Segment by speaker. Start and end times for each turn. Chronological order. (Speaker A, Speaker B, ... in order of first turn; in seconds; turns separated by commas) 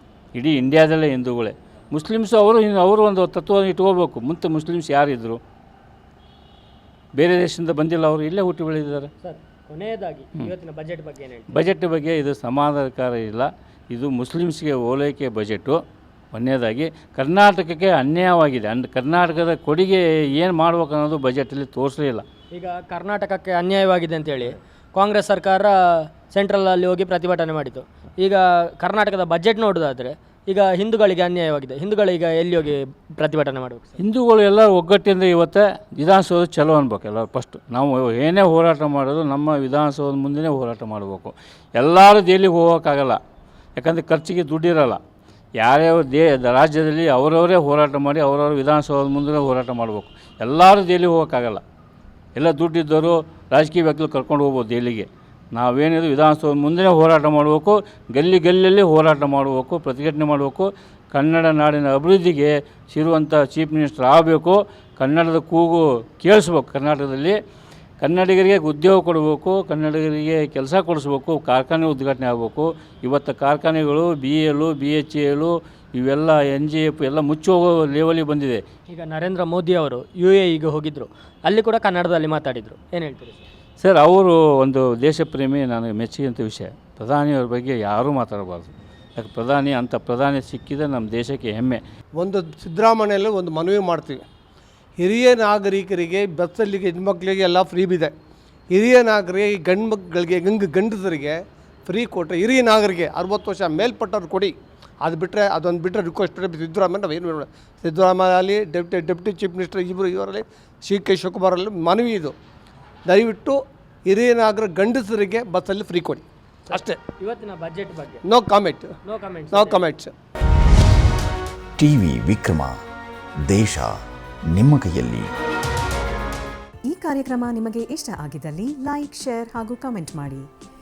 Speaker A: 0.3-5.4, Speaker A: 7.2-9.1, Speaker B: 9.2-11.5, Speaker A: 11.5-15.8, Speaker A: 16.3-22.2, Speaker B: 22.5-34.0, Speaker A: 34.0-43.2, Speaker A: 43.8-45.0, Speaker A: 45.6-51.6, Speaker A: 52.3-67.4, Speaker A: 68.0-78.6, Speaker B: 78.9-83.5, Speaker A: 83.8-91.8, Speaker C: 92.2-94.2, Speaker C: 95.0-98.1, Speaker C: 98.7-112.3, Speaker C: 113.1-117.0, Speaker B: 116.7-118.2, Speaker C: 118.2-118.9, Speaker B: 119.0-119.8, Speaker C: 119.5-120.1, Speaker D: 121.8-122.7, Speaker D: 123.4-125.3, Speaker E: 126.9-130.5